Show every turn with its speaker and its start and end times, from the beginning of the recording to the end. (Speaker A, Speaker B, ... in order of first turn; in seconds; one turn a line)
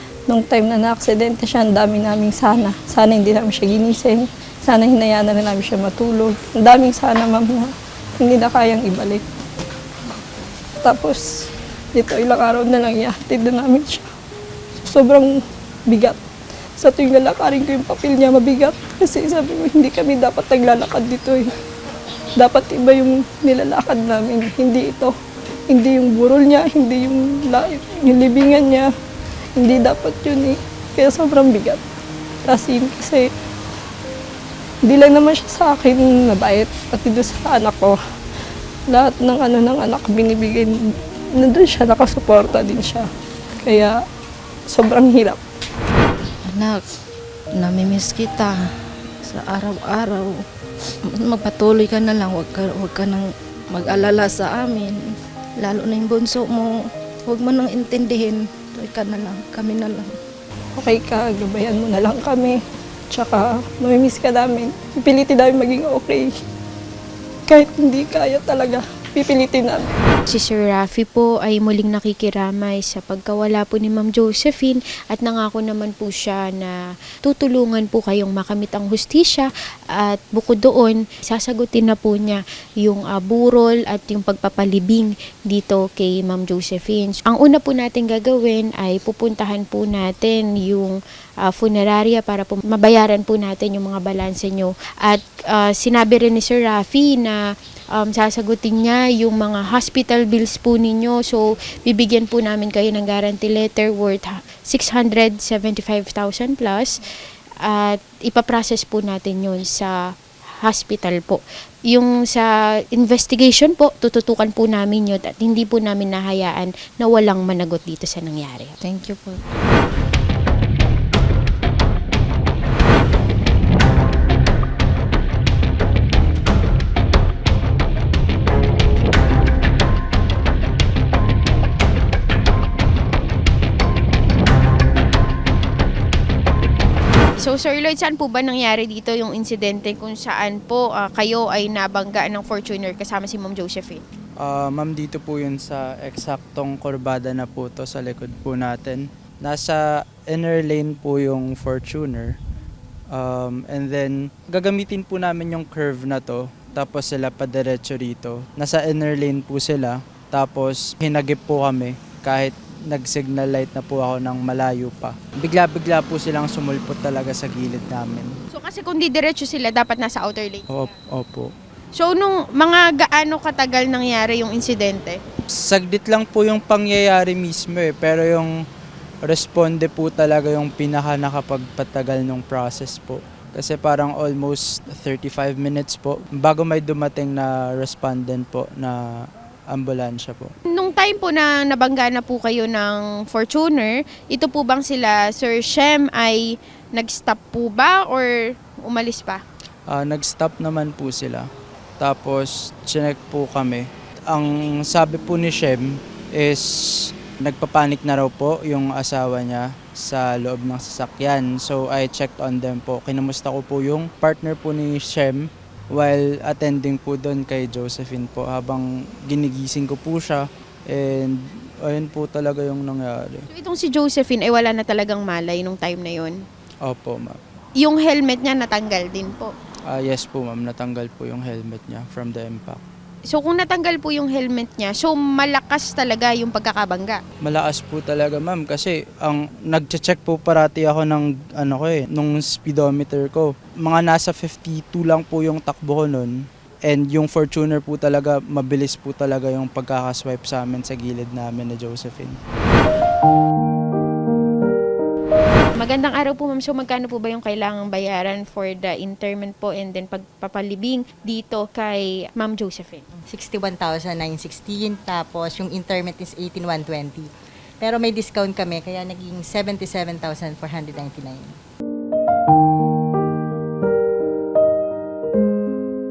Speaker A: 0.3-9.3
Speaker A: 10.8-11.3
Speaker A: 11.9-14.1
Speaker A: 14.8-15.3
Speaker A: 15.9-16.2
Speaker A: 16.8-21.5
Speaker A: 22.4-25.1
Speaker A: 25.7-28.9
Speaker A: 29.6-31.8
Speaker A: 32.5-33.3
Speaker A: 34.9-38.0
Speaker A: 38.9-40.8
Speaker A: 41.4-43.1
Speaker A: 43.6-44.0
Speaker A: 44.7-45.4
Speaker B: 46.5-46.8
Speaker B: 47.6-48.6
Speaker B: 49.2-50.3
Speaker B: 51.1-55.0
Speaker B: 55.6-56.7
Speaker B: 57.3-60.2
Speaker A: 60.8-62.6
Speaker A: 63.1-66.3
Speaker A: 67.5-69.9
Speaker C: 70.3-97.4
Speaker C: 98.0-107.0
Speaker C: 107.7-110.0
Speaker C: 110.6-118.8
Speaker B: 118.8-119.4
Speaker C: 137.4-144.0
Speaker D: 144.4-152.4
Speaker D: 153.1-168.3
Speaker C: 168.5-170.7
Speaker D: 170.7-171.5
Speaker C: 172.0-175.2
Speaker D: 175.6-178.5
Speaker D: 179.2-189.0
Speaker D: 189.7-190.5
Speaker C: 190.7-199.4
Speaker D: 199.9-201.4
Speaker D: 202.0-206.7
Speaker D: 207.4-223.4
Speaker C: 223.5-226.4
Speaker D: 226.8-227.4
Speaker C: 227.8-229.5
Speaker D: 229.9-232.8
Speaker C: 233.3-237.2
Speaker D: 237.4-246.4
Speaker D: 246.9-252.4
Speaker C: 255.8-263.1
Speaker E: 263.3-267.3
Speaker E: 267.8-271.5